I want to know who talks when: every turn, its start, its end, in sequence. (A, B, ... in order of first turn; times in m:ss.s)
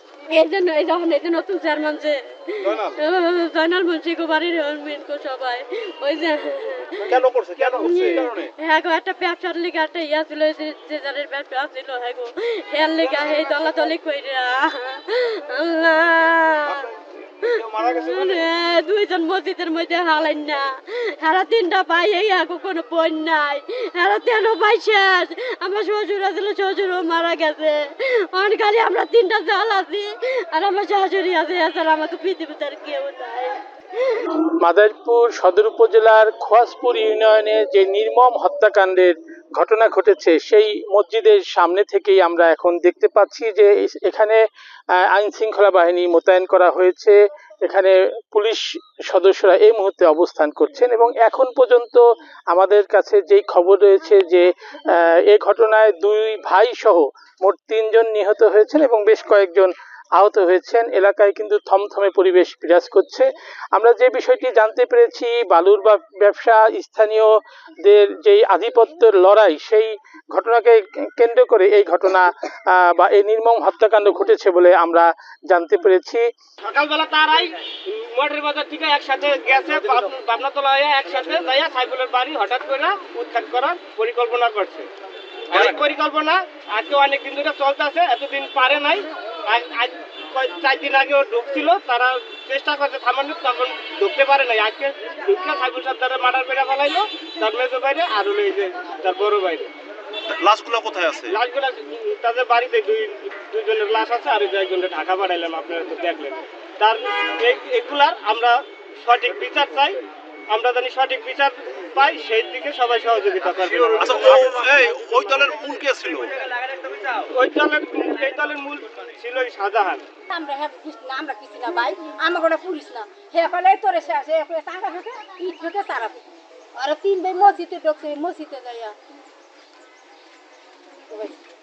0:00.3-0:07.2 A
0:02.6-0:02.9 B
0:07.1-0:08.5 C
0:07.1-0:08.2 B
0:07.8-0:16.9 A
0:17.4-0:34.3 A
0:17.4-0:18.4 C
0:34.6-0:44.4 D
0:44.9-1:16.2 D
1:16.6-1:24.9 B
1:25.5-1:39.7 B
1:25.5-1:25.8 C
1:40.3-1:41.4 C
1:41.3-1:50.0 B
1:50.5-1:55.4 B
1:53.5-1:56.3 C
1:56.8-2:00.0 B
2:00.3-2:06.2 E
2:06.8-2:08.9 E